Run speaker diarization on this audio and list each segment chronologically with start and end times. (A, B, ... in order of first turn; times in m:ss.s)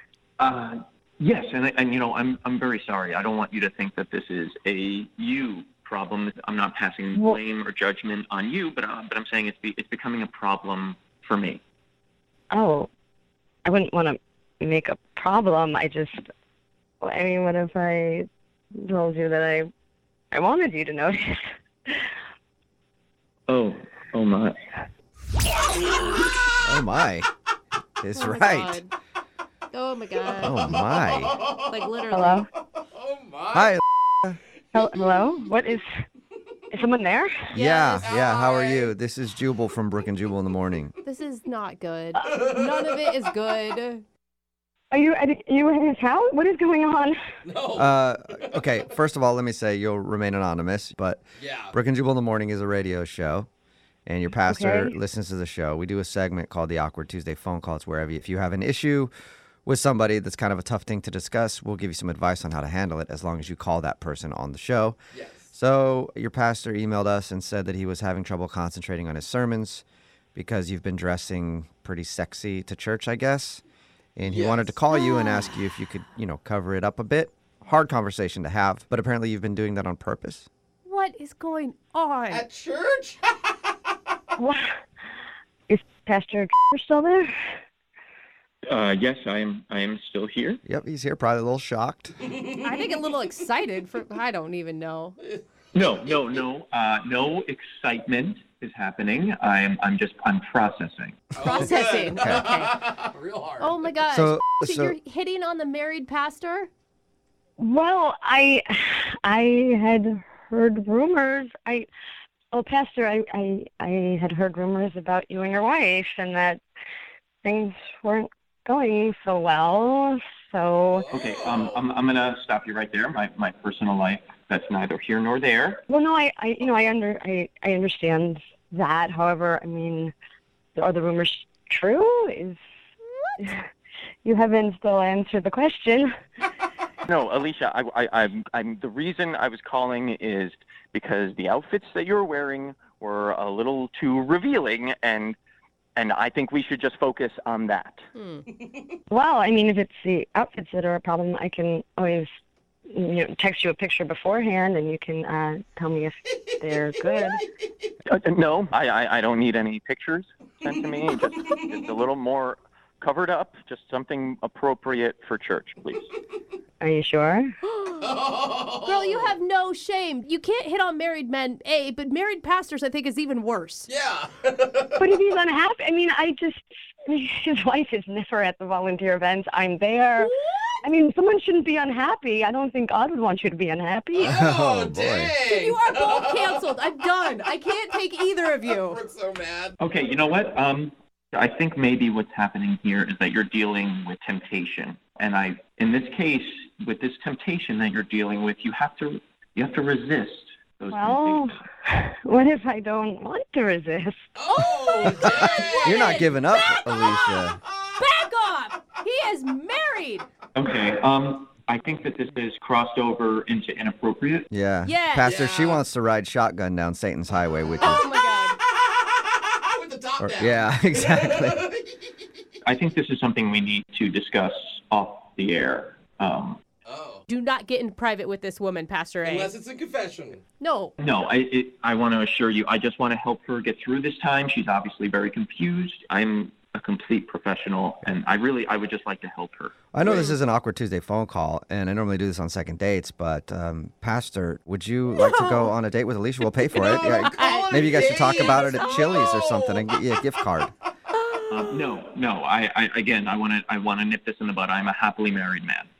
0:00.4-0:11.6 A
0:12.5-0:12.9 B
0:13.6-0:16.2 B
0:17.0-0:18.3 B
0:18.8-0:19.7 B
0:20.3-0:22.0 B
0:23.5-0:24.6 A
0:25.6-0:26.3 C
0:26.6-0:27.3 D
0:28.0-0:28.8 D
0:28.2-0:28.9 E
0:29.7-0:30.7 E
0:30.2-0:32.0 C
0:30.4-0:31.4 D
0:31.6-0:32.4 E
0:32.1-0:32.4 B
0:32.5-0:33.8 C
0:33.5-0:34.3 D
0:34.7-0:35.3 C
0:34.7-0:35.9 B
0:36.7-0:37.5 B
0:37.5-0:38.1 E
0:37.5-0:40.9 D
0:37.9-0:38.9 C
0:41.0-0:44.0 E
0:42.2-0:43.1 C
0:44.9-0:47.2 B
0:47.4-0:48.8 C
0:47.7-0:53.5 D
0:51.4-0:51.7 C
0:54.0-0:59.1 D
0:54.4-0:54.9 B
0:59.6-1:05.0 D
1:05.1-1:05.5 C
1:05.5-1:09.8 D
1:10.3-1:13.6 D
1:14.2-1:20.5 D
1:14.2-1:14.7 C
1:14.9-1:15.5 E
1:20.8-1:22.4 E
1:22.3-1:23.9 C
1:24.4-1:24.7 B
1:25.7-1:27.3 B
1:28.7-1:30.6 A
1:30.6-1:32.2 D
1:32.2-1:32.7 C
1:32.6-1:35.2 E
1:35.2-1:35.4 C
1:35.7-1:41.3 A
1:41.3-1:43.9 C
1:41.4-1:42.8 E
1:42.2-1:42.5 D
1:43.6-1:46.7 E
1:44.1-1:44.9 D
1:47.6-1:51.8 B
1:52.5-1:56.6 B
1:57.4-2:01.1 B
2:00.9-2:01.8 C
2:01.1-2:05.8 A
2:05.9-2:10.1 B
2:10.8-2:12.6 B
2:14.2-2:16.1 B
2:17.0-2:25.4 A
2:26.0-2:28.0 A
2:28.1-2:28.4 E
2:28.5-2:29.0 C
2:29.1-2:32.3 B
2:32.9-2:37.4 B
2:36.4-2:37.9 C
2:38.0-2:46.1 A
2:41.1-2:41.7 C
2:46.8-2:47.5 B
2:47.6-2:48.1 E
2:48.0-2:49.3 C
2:48.8-2:53.9 E
2:53.9-2:55.1 C
2:55.0-3:00.3 B
3:00.2-3:00.8 E
3:00.8-3:04.4 B
3:04.2-3:06.7 C
3:04.2-3:05.3 D
3:05.4-3:09.0 E
3:08.6-3:09.7 C
3:09.8-3:21.6 A
3:20.9-3:24.2 B
3:24.4-3:26.3 C
3:24.8-3:30.2 E
3:25.1-3:27.6 D
3:27.6-3:28.0 C
3:30.5-3:34.5 A
3:34.5-3:38.0 D
3:34.8-3:35.3 E
3:35.2-3:35.8 C
3:37.7-3:38.1 C
3:37.8-3:38.6 E
3:38.6-3:42.1 C
3:40.2-3:41.7 D
3:42.6-3:46.6 A
3:46.8-3:47.2 C
3:47.3-3:49.5 E
3:49.2-3:50.4 C
3:50.6-3:50.9 E
3:51.0-3:59.8 A
3:59.9-4:10.7 D
4:00.0-4:00.3 C
4:05.2-4:05.7 E
4:06.7-4:10.4 C
4:06.8-4:09.3 E
4:11.2-4:11.8 E
4:11.5-4:15.9 A